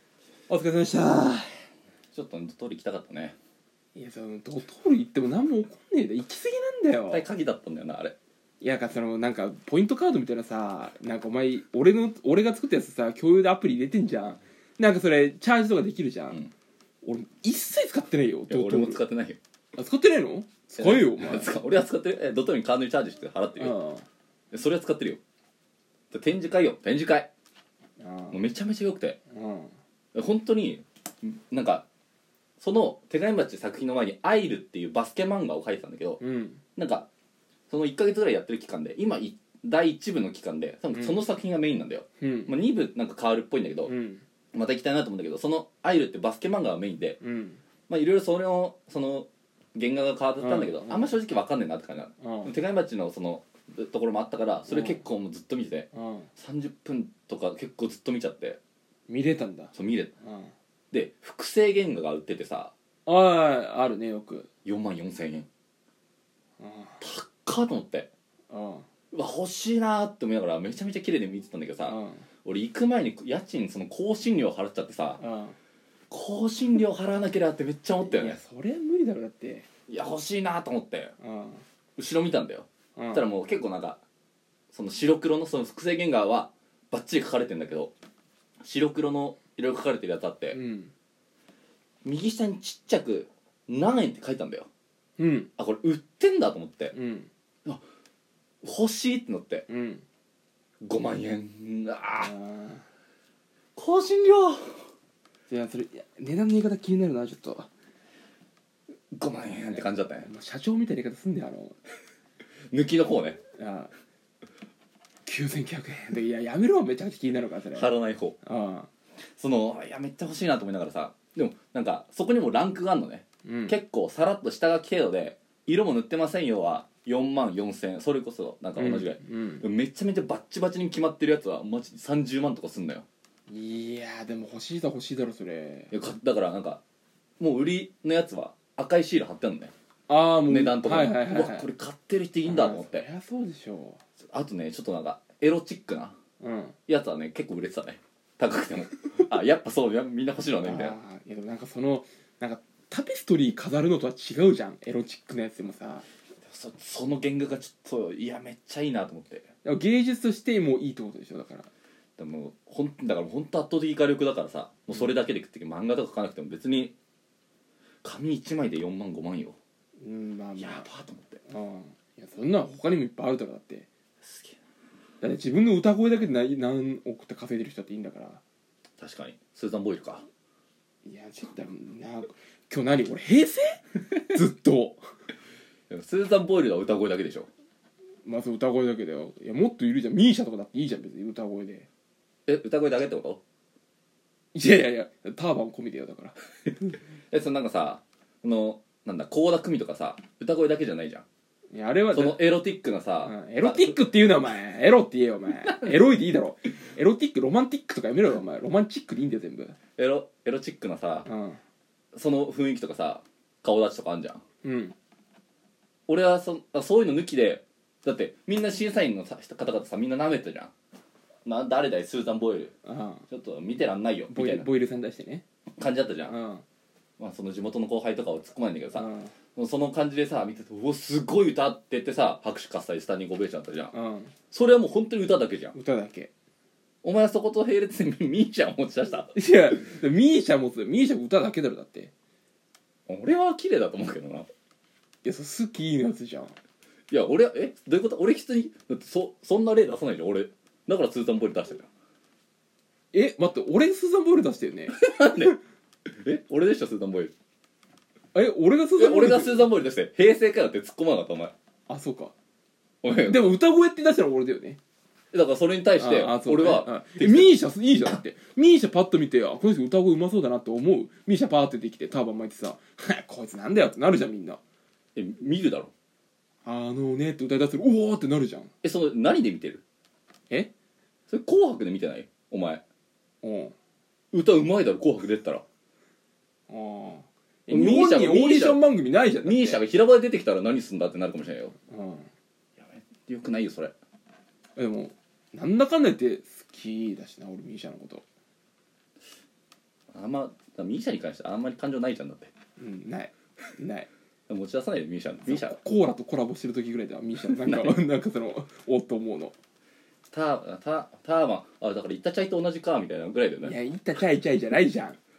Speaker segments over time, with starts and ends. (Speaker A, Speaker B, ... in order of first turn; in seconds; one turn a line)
Speaker A: 0.5-1.6
Speaker B: 2.1-3.4
Speaker A: 4.0-7.3
Speaker B: 7.1-8.2
Speaker A: 8.6-16.4
Speaker A: 17.0-19.0
Speaker B: 18.5-19.4
Speaker A: 19.8-21.5
Speaker B: 20.8-23.8
Speaker A: 23.6-24.1
Speaker B: 24.5-25.2
Speaker B: 26.1-27.3
Speaker A: 28.0-28.4
Speaker B: 28.3-29.2
Speaker A: 29.3-29.7
Speaker B: 30.1-31.9
Speaker B: 32.6-36.2
Speaker A: 36.2-36.6
Speaker B: 36.8-37.1
Speaker B: 37.7-43.9
Speaker A: 42.2-42.6
Speaker A: 43.9-44.2
Speaker B: 44.5-47.2
Speaker A: 47.2-47.6
Speaker B: 47.9-58.6
Speaker A: 50.4-51.2
Speaker A: 52.2-52.5
Speaker A: 54.7-55.0
Speaker A: 55.9-56.3
Speaker A: 59.1-60.5
Speaker B: 59.7-60.1
Speaker B: 60.9-62.7
Speaker A: 63.1-64.5
Speaker B: 64.7-65.5
Speaker A: 66.6-67.0
Speaker B: 67.0-68.1
Speaker A: 68.5-68.8
Speaker B: 69.1-75.2
Speaker A: 71.9-72.2
Speaker A: 75.2-75.6
Speaker B: 76.1-78.4
Speaker A: 78.0-79.7
Speaker B: 79.9-81.1
Speaker A: 81.2-81.6
Speaker B: 82.0-84.0
Speaker A: 83.0-83.3
Speaker B: 84.7-87.9
Speaker B: 88.6-90.6
Speaker A: 90.5-90.9
Speaker B: 92.0-94.7
Speaker A: 95.2-95.5
Speaker B: 95.6-96.9
Speaker A: 96.9-97.3
Speaker B: 98.6-99.7
Speaker A: 99.7-100.0
Speaker B: 100.8-102.3
Speaker A: 102.2-102.8
Speaker B: 103.8-104.8
Speaker A: 105.5-107.7
Speaker B: 109.1-110.3
Speaker A: 110.2-111.8
Speaker B: 112.7-113.4
Speaker A: 113.6-113.9
Speaker A: 115.3-118.9
Speaker B: 117.7-118.4
Speaker B: 119.4-133.1
Speaker A: 123.5-123.8
Speaker A: 128.8-129.7
Speaker A: 133.5-135.9
Speaker B: 135.9-136.8
Speaker B: 137.4-139.7
Speaker A: 140.1-141.7
Speaker B: 140.4-143.1
Speaker A: 142.4-144.0
Speaker B: 144.2-146.2
Speaker A: 146.4-146.8
Speaker B: 146.9-151.0
Speaker A: 150.6-156.1
Speaker B: 156.4-159.5
Speaker A: 159.6-161.7
Speaker B: 162.2-166.9
Speaker B: 168.0-169.6
Speaker A: 170.0-170.9
Speaker B: 170.6-171.4
Speaker A: 171.5-173.9
Speaker B: 174.2-174.6
Speaker A: 175.2-178.4
Speaker B: 179.0-180.2
Speaker A: 181.1-185.1
Speaker B: 185.9-187.5
Speaker A: 188.2-191.9
Speaker B: 192.5-193.4
Speaker A: 194.5-197.0
Speaker B: 197.3-201.2
Speaker A: 201.7-202.5
Speaker B: 202.1-204.1
Speaker A: 203.2-209.8
Speaker B: 205.5-206.1
Speaker B: 210.0-211.3
Speaker A: 211.2-211.6
Speaker B: 212.1-214.4
Speaker A: 214.6-214.9
Speaker B: 216.1-220.7
Speaker B: 221.5-222.7
Speaker A: 222.9-223.2
Speaker B: 223.3-224.7
Speaker A: 224.3-225.4
Speaker B: 225.8-226.3
Speaker A: 226.3-226.6
Speaker B: 227.2-233.9
Speaker A: 228.9-229.3
Speaker A: 233.9-234.3
Speaker B: 234.5-235.8
Speaker A: 235.7-236.3
Speaker B: 237.0-239.3
Speaker A: 239.3-242.1
Speaker B: 243.1-244.5
Speaker A: 245.2-246.6
Speaker B: 247.1-251.9
Speaker A: 253.1-255.5
Speaker B: 254.9-255.6
Speaker B: 256.1-257.3
Speaker A: 258.3-259.7
Speaker B: 259.0-261.5
Speaker A: 261.9-262.3
Speaker B: 263.0-263.5
Speaker A: 263.2-264.8
Speaker B: 265.3-267.5
Speaker A: 266.0-274.6
Speaker B: 275.2-275.9
Speaker A: 276.6-278.7
Speaker B: 278.8-279.8
Speaker B: 281.3-282.8
Speaker A: 283.4-283.7
Speaker B: 284.3-285.6
Speaker A: 286.7-289.8
Speaker B: 287.7-288.8
Speaker B: 289.4-291.7
Speaker A: 291.9-292.3
Speaker B: 292.8-293.9
Speaker A: 294.8-298.2
Speaker B: 300.1-302.5
Speaker A: 302.8-304.1
Speaker B: 304.5-305.8
Speaker A: 305.5-309.6
Speaker B: 307.6-308.0
Speaker B: 310.3-313.8
Speaker A: 313.6-315.2